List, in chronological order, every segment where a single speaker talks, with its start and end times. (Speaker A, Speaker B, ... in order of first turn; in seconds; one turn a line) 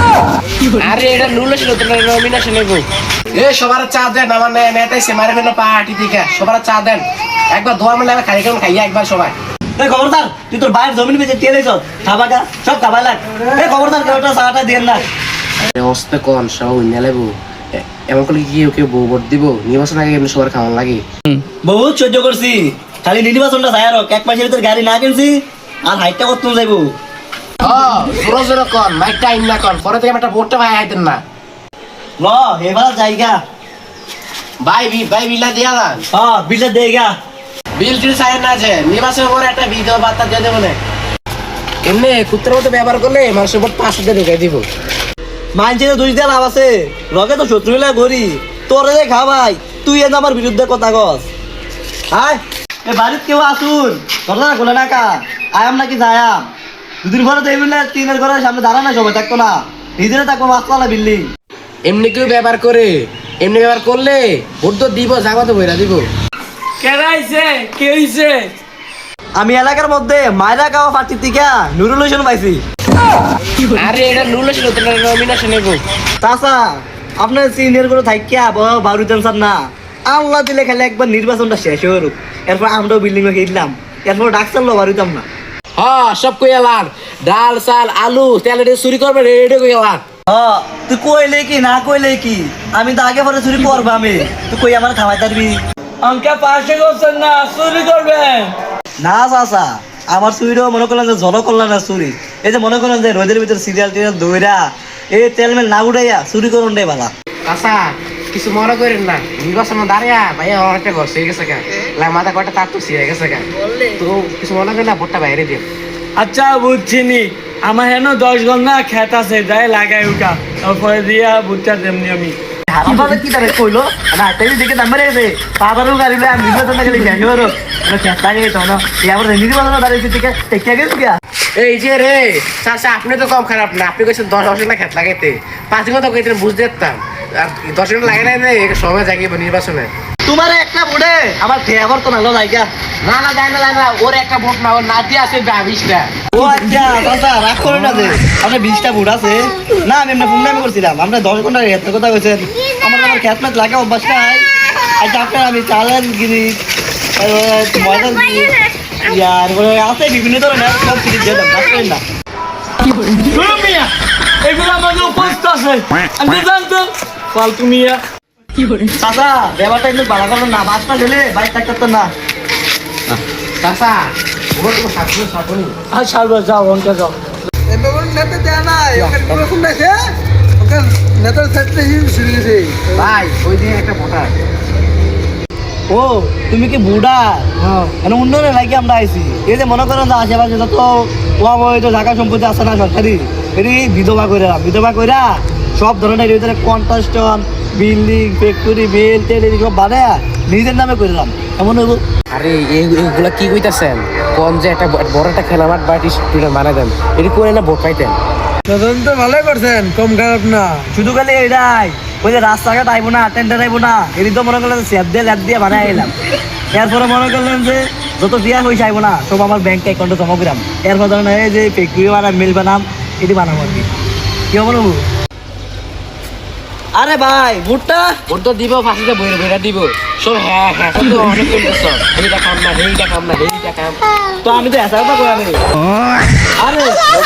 Speaker A: 0.7-9.3
Speaker B: 9.8-15.0
Speaker A: 15.8-21.0
Speaker B: 21.6-26.9
Speaker A: 27.6-31.2
Speaker B: 32.2-33.4
Speaker A: 34.6-36.0
Speaker B: 36.1-37.1
Speaker A: 37.8-40.8
Speaker A: 41.8-44.6
Speaker B: 45.5-51.3
Speaker B: 52.1-56.4
Speaker B: 57.0-61.3
Speaker A: 61.9-66.0
Speaker C: 66.8-68.5
Speaker B: 69.4-72.6
Speaker A: 73.6-75.8
Speaker B: 76.2-76.7
Speaker B: 77.2-79.6
Speaker B: 80.1-85.2
Speaker A: 85.8-90.0
Speaker B: 90.3-95.6
Speaker C: 96.0-98.5
Speaker B: 99.0-104.6
Speaker B: 105.1-107.1
Speaker A: 107.5-115.7
Speaker C: 116.2-122.4
Speaker B: 122.7-131.2
Speaker A: 131.6-139.9
Speaker B: 140.2-142.7
Speaker A: 143.0-146.1
Speaker B: 146.3-154.4
Speaker B: 155.0-156.6
Speaker B: 157.2-162.0
Speaker C: 162.8-168.0
Speaker B: 168.9-172.1
Speaker A: 173.1-175.7
Speaker C: 175.9-177.2
Speaker D: 177.7-180.0
Speaker A: 179.0-179.5
Speaker D: 180.6-183.0
Speaker A: 182.9-184.3
Speaker B: 185.9-202.0
Speaker A: 202.3-208.2
Speaker D: 208.7-210.9
Speaker B: 210.9-216.1
Speaker B: 216.7-223.9
Speaker B: 224.5-225.0
Speaker B: 226.9-228.1
Speaker A: 228.3-234.0
Speaker B: 234.4-235.6
Speaker B: 236.6-236.9